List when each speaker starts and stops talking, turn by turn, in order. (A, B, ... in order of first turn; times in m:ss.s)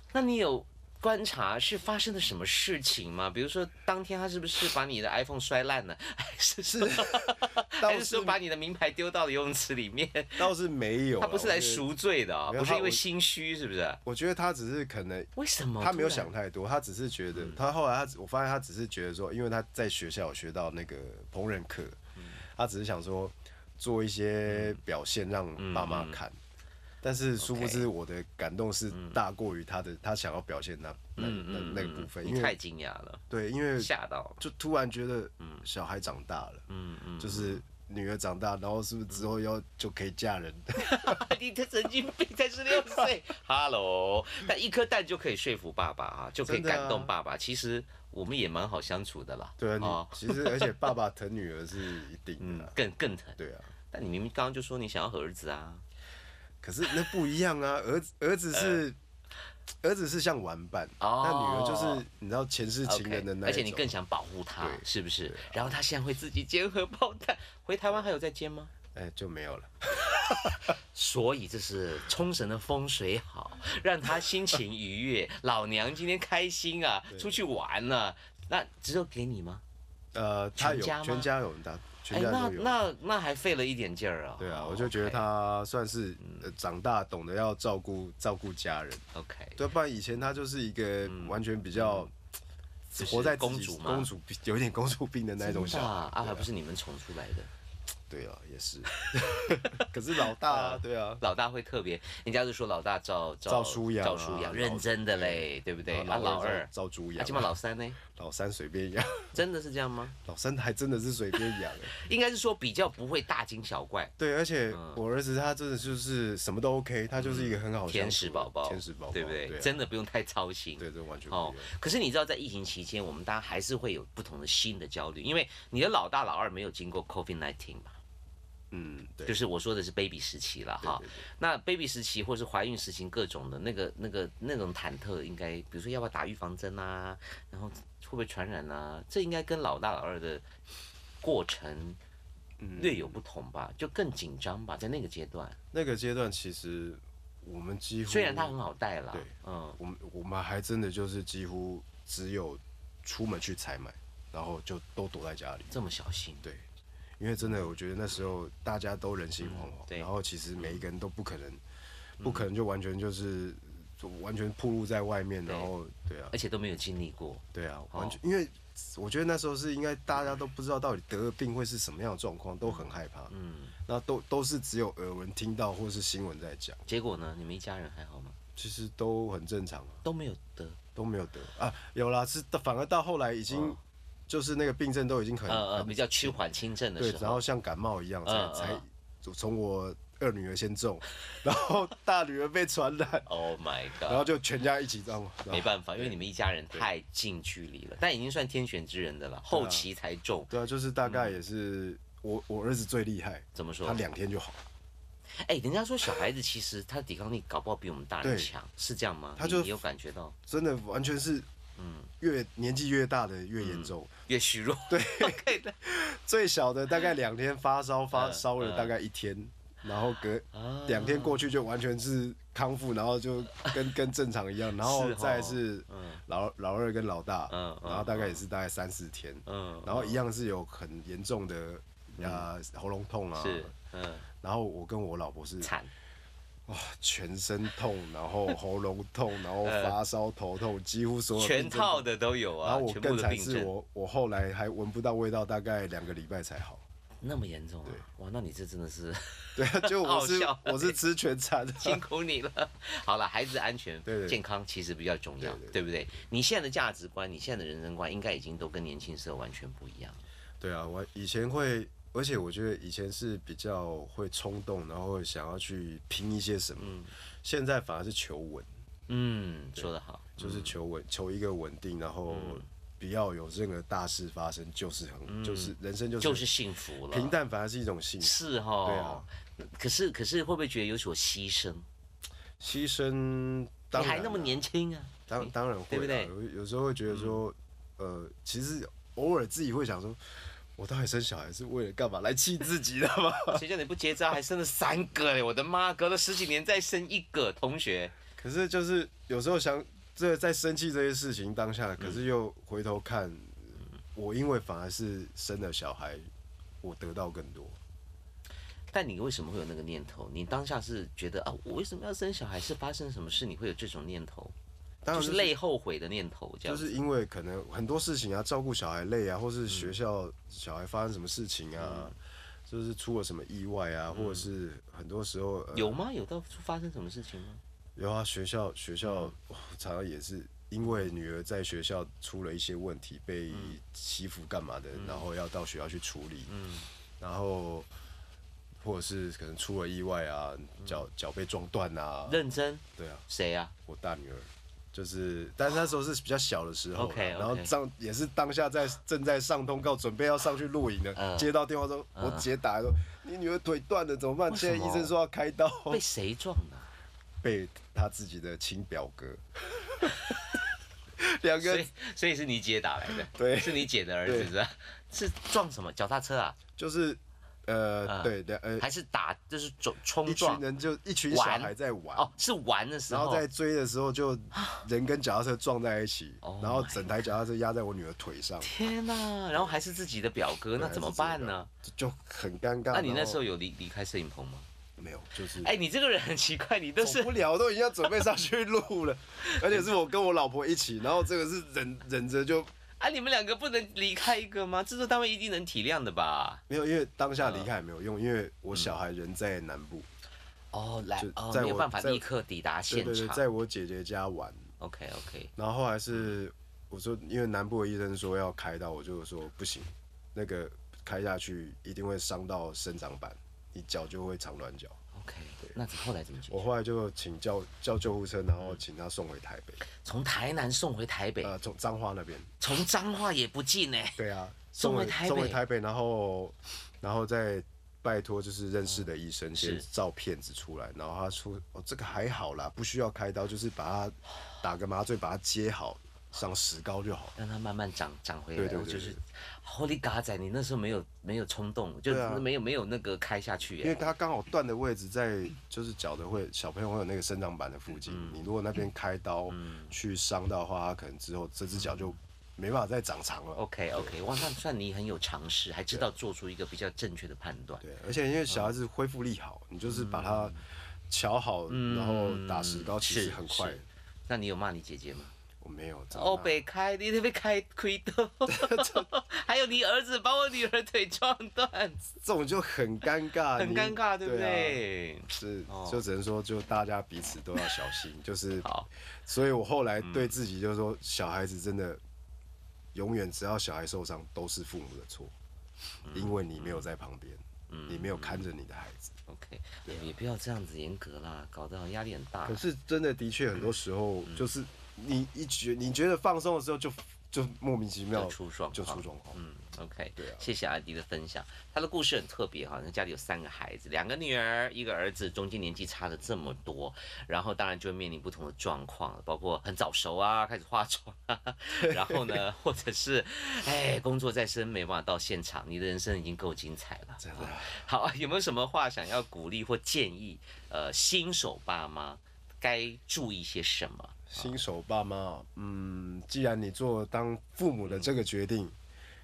0:00.1-0:10.5 A
0:06.7-0:08.4 B
0:10.4-0:11.9 B
0:11.2-0:14.0 A
0:12.5-0:13.0 B
0:14.0-0:26.4 B
0:15.4-0:16.3 A
0:17.3-0:17.6 A
0:24.5-0:24.8 A
0:25.6-0:26.2 A
0:27.0-0:32.6 B
0:27.4-0:27.9 A
0:28.9-0:29.2 A
0:31.2-0:33.2 A
0:33.3-0:36.7 B
0:33.8-0:34.4 A
0:35.4-0:35.6 A
0:36.7-0:37.6 A
0:37.2-0:41.2 B
0:40.8-0:50.9 A
0:46.4-0:47.1 B
0:49.6-0:52.7 B
0:52.4-0:53.4 A
0:53.4-0:53.7 B
0:53.9-0:55.8 A
0:56.6-0:59.0 B
0:58.5-0:58.8 A
0:59.8-1:04.0 B
1:01.0-1:02.0 A
1:02.8-1:08.7 A
1:04.6-1:05.8 B
1:08.9-1:10.7 B
1:10.0-1:19.6 A
1:17.1-1:17.4 B
1:20.1-1:22.8 B
1:20.6-1:21.3 A
1:22.1-1:25.3 A
1:24.4-1:29.0 B
1:26.2-1:26.5 A
1:29.1-1:29.6 A
1:29.6-1:32.1 B
1:31.0-1:32.1 A
1:32.9-1:36.5 B
1:33.0-1:34.1 A
1:35.4-1:37.5 A
1:38.1-1:41.2 B
1:39.0-1:48.0 A
1:43.5-1:49.4 B
1:49.3-1:50.1 A
1:50.2-1:51.9 B
1:51.9-1:54.1 A
1:54.2-1:59.8 B
1:54.7-1:55.0 A
1:57.2-2:08.0 A
2:00.8-2:01.7 B
2:08.7-2:09.4 B
2:09.2-2:20.4 A
2:10.8-2:11.3 B
2:21.2-2:22.0 A
2:22.6-2:23.2 B
2:22.8-2:25.6 A
2:25.7-2:28.6 B
2:28.1-2:29.8 A
2:29.1-2:35.7 B
2:35.7-2:36.5 A
2:37.2-2:41.6 B
2:37.4-2:37.7 A
2:39.4-2:40.8 A
2:42.2-2:42.5 A
2:42.2-2:46.3 B
2:45.4-2:45.7 A
2:46.3-2:48.2 A
2:47.5-2:53.3 B
2:52.6-2:53.7 A
2:53.9-2:56.8 B
2:56.9-2:58.4 A
2:58.6-3:00.0 B
3:00.0-3:00.8 A
3:00.9-3:06.4 B
3:03.5-3:03.8 A
3:05.5-3:07.4 A
3:07.0-3:13.3 B
3:08.2-3:08.8 A
3:13.2-3:14.2 A
3:14.0-3:16.2 B
3:15.5-3:20.5 A
3:19.5-3:19.8 B
3:20.5-3:24.6 B
3:21.0-3:21.4 A
3:23.5-3:24.0 A
3:25.4-3:30.3 A
3:28.2-3:28.5 B
3:29.4-3:29.8 B
3:30.5-3:31.5 B
3:31.8-3:32.1 A
3:32.2-3:34.1 B
3:33.6-3:35.7 A
3:34.9-3:53.7 B
3:38.1-3:38.9 A
3:40.5-3:41.5 A
3:43.5-3:43.9 A
3:44.8-3:46.2 A
3:47.5-3:48.4 A
3:49.5-3:50.2 A
3:52.2-3:52.5 A
3:53.4-3:54.3 A
3:54.4-3:55.7 B
3:55.6-3:55.9 A
3:56.7-4:02.1 B
3:59.6-4:00.0 A
4:01.3-4:03.7 A
4:02.6-4:06.8 B
4:07.2-4:11.0 A
4:09.6-4:12.0 B
4:11.8-4:20.2 A
4:14.0-4:14.4 B
4:15.4-4:15.8 B
4:20.6-4:28.7 B
4:26.8-4:27.1 A
4:29.1-4:30.7 A
4:29.8-4:36.5 B
4:32.3-4:32.6 A
4:35.3-4:37.4 A
4:37.1-4:39.2 B
4:38.2-4:41.8 A
4:42.6-4:44.6 B
4:43.9-4:46.3 A
4:45.3-4:50.2 B
4:47.1-4:47.4 A
4:50.8-4:53.6 B
4:53.5-4:58.1 A
4:58.4-5:06.2 B
5:06.8-5:07.8 B
5:08.9-5:14.5 A
5:15.0-5:15.5 B
5:15.1-5:17.0 A
5:16.6-5:22.1 B
5:19.7-5:20.0 A
5:21.8-5:22.1 A
5:22.7-5:26.0 B
5:24.1-5:24.5 A
5:25.7-5:27.6 A
5:28.0-5:36.5 B
5:29.0-5:29.3 A
5:30.8-5:31.1 A
5:33.5-5:33.8 A
5:34.9-5:35.2 A
5:36.5-5:36.9 A
5:37.2-5:37.9 B
5:38.8-5:42.4 B
5:42.3-5:43.7 A
5:43.0-5:43.2 B
5:43.9-5:56.0 B
5:47.0-5:47.7 A
5:51.1-5:51.5 A
5:52.1-5:52.5 A
5:54.5-5:55.1 A
5:55.9-5:56.9 A
5:57.4-6:00.4 B
6:00.1-6:00.4 A
6:01.2-6:01.9 B
6:01.6-6:06.6 A
6:03.1-6:04.5 B
6:06.8-6:08.9 B
6:08.0-6:10.6 A
6:10.2-6:12.3 B
6:11.3-6:13.4 A
6:13.1-6:18.7 B
6:14.5-6:14.8 A
6:16.4-6:17.3 A
6:18.6-6:21.7 A
6:20.8-6:23.4 B
6:22.9-6:24.7 A
6:25.0-6:25.7 B
6:25.5-6:27.3 A
6:27.0-6:32.7 B
6:29.5-6:29.8 A
6:33.0-6:36.6 A
6:36.7-6:40.1 B
6:37.4-6:37.7 A
6:38.7-6:39.0 A
6:40.7-6:43.4 A
6:41.2-6:42.2 B
6:42.9-6:44.6 B
6:44.8-6:45.5 A
6:45.6-6:55.0 B
6:55.1-6:56.6 A
6:56.5-6:59.8 B
6:59.9-7:01.6 A
7:01.4-7:02.5 B
7:02.6-7:04.2 A
7:04.2-7:17.4 B
7:04.8-7:05.6 A
7:09.6-7:09.8 A
7:17.4-7:24.1 A
7:18.6-7:19.2 B
7:22.1-7:22.4 B
7:23.8-7:34.2 B
7:28.0-7:28.4 A
7:29.5-7:29.9 A
7:31.8-7:32.1 A
7:33.6-7:37.8 A
7:37.8-7:43.8 B
7:38.5-7:38.8 A
7:39.8-7:40.6 A
7:41.7-7:45.3 A
7:45.6-7:46.6 B
7:46.1-7:52.1 A
7:48.5-7:49.1 B
7:52.2-7:58.7 B
7:53.5-7:56.0 A
7:58.6-7:58.9 A
7:59.2-8:02.0 B
8:00.0-8:00.4 A
8:02.9-8:05.3 B
8:06.0-8:06.9 A
8:06.1-8:09.1 B
8:07.7-8:08.5 A
8:09.3-8:12.6 A
8:12.4-8:19.4 B
8:18.1-8:44.5 A
8:20.2-8:20.5 B
8:31.8-8:32.4 B
8:37.2-8:37.8 B
8:44.3-8:48.7 B